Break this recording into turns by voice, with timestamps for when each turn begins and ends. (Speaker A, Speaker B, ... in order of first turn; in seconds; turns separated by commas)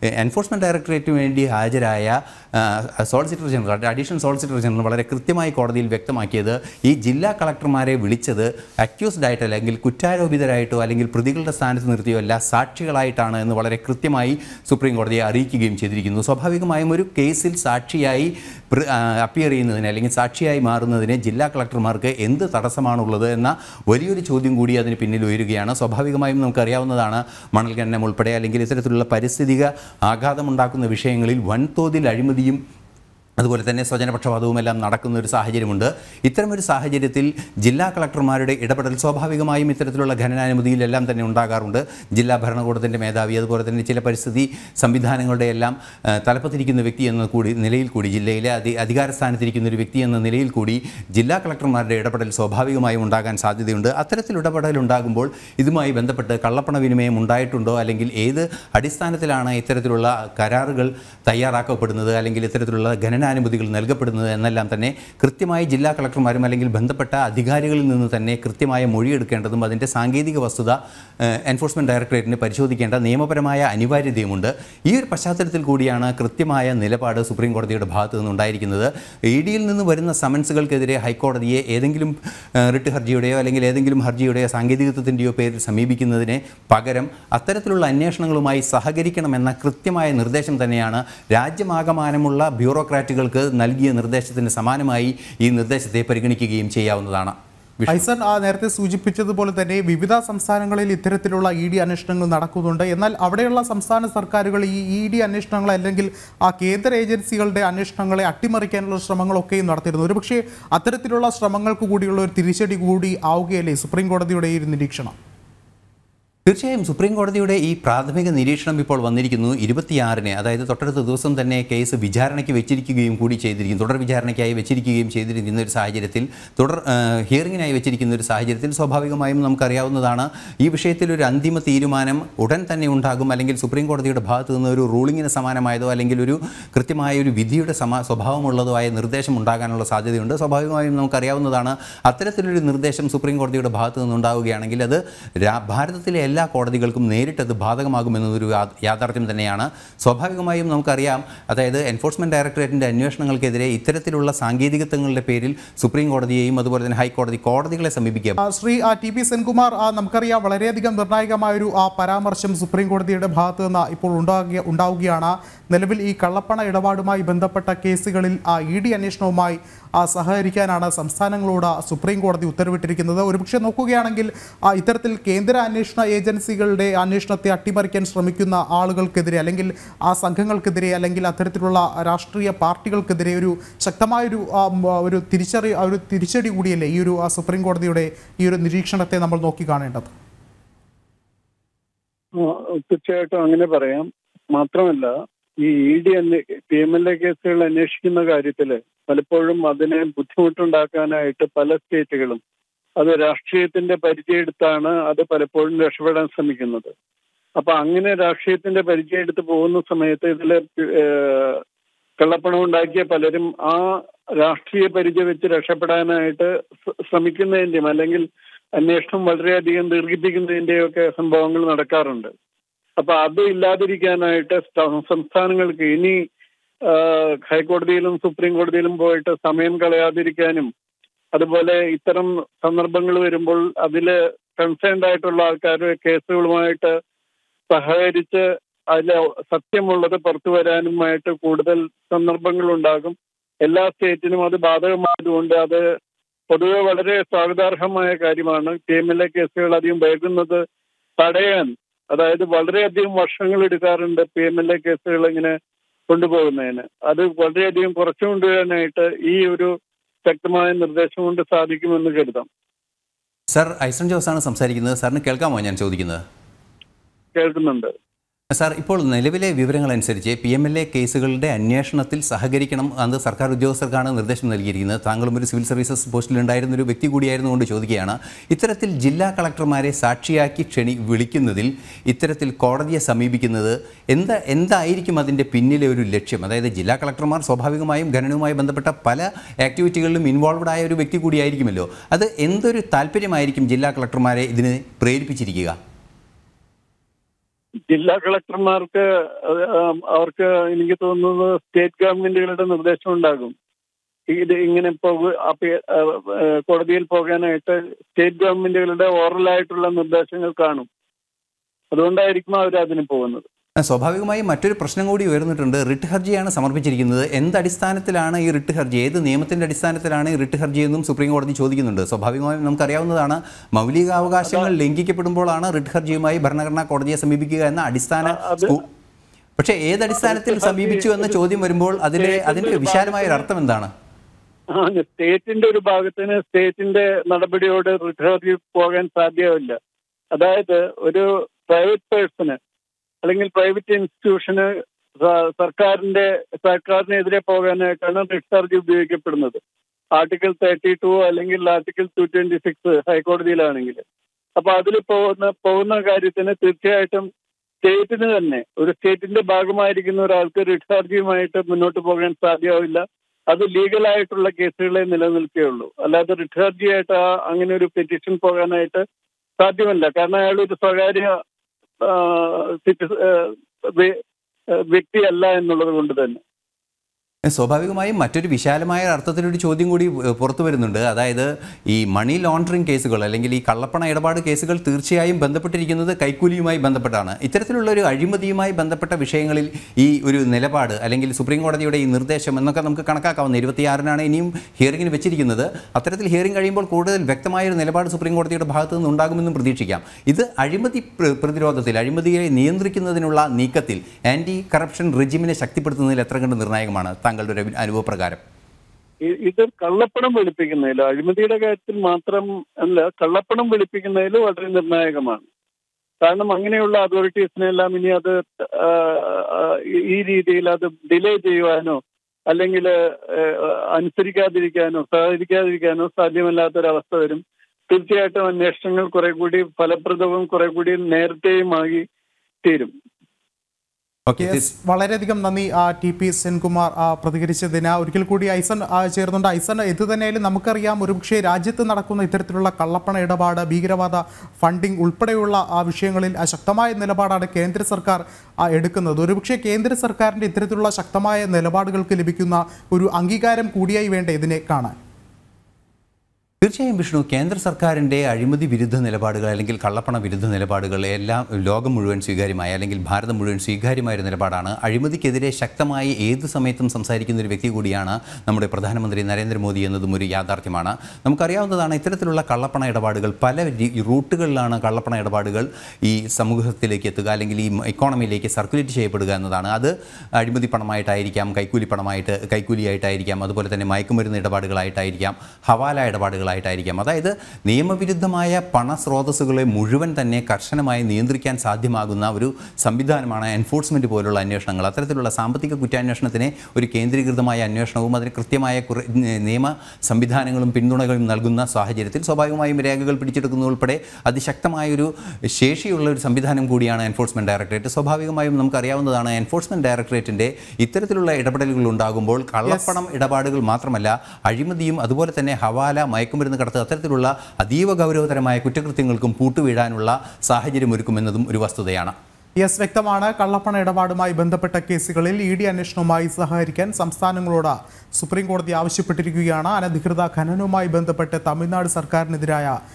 Speaker A: 0.2-32.6, Speaker A: 33.4-98.0, Speaker B: 97.9-115.2, Speaker A: 116.5-158.4, Speaker B: 158.4-190.1, Speaker C: 192.4-202.4, Speaker C: 203.0-206.9, Speaker C: 207.6-211.6, Speaker C: 212.2-213.8, Speaker C: 214.4-216.5, Speaker C: 217.1-218.2, Speaker C: 218.8-222.3, Speaker C: 223.0-226.2, Speaker C: 226.9-230.7, Speaker C: 231.3-236.9, Speaker C: 237.7-238.4, Speaker C: 238.9-245.8, Speaker C: 246.5-250.6, Speaker C: 251.2-255.5, Speaker C: 256.1-259.7, Speaker C: 260.3-262.5, Speaker A: 263.5-266.2, Speaker C: 267.4-267.9, Speaker A: 268.5-295.7, Speaker C: 297.9-303.5, Speaker C: 304.3-310.9, Speaker C: 311.9-313.4, Speaker A: 313.9-328.8, Speaker C: 324.4-324.7, Speaker C: 328.3-328.8, Speaker A: 329.6-333.9, Speaker C: 330.1-331.3, Speaker C: 332.1-333.5, Speaker C: 334.8-339.8, Speaker C: 340.3-342.6, Speaker C: 343.2-344.7, Speaker C: 345.2-349.6, Speaker C: 350.2-354.0, Speaker C: 354.6-357.2, Speaker C: 357.8-369.0, Speaker C: 369.6-371.3, Speaker C: 372.1-374.1, Speaker C: 374.9-376.4, Speaker A: 377.5-408.4, Speaker C: 409.4-415.5, Speaker C: 416.2-422.0, Speaker C: 422.5-432.0, Speaker C: 432.6-432.9, Speaker A: 434.3-434.7, Speaker B: 434.4-454.9, Speaker A: 456.6-522.1, Speaker B: 512.7-513.0, Speaker B: 522.6-532.8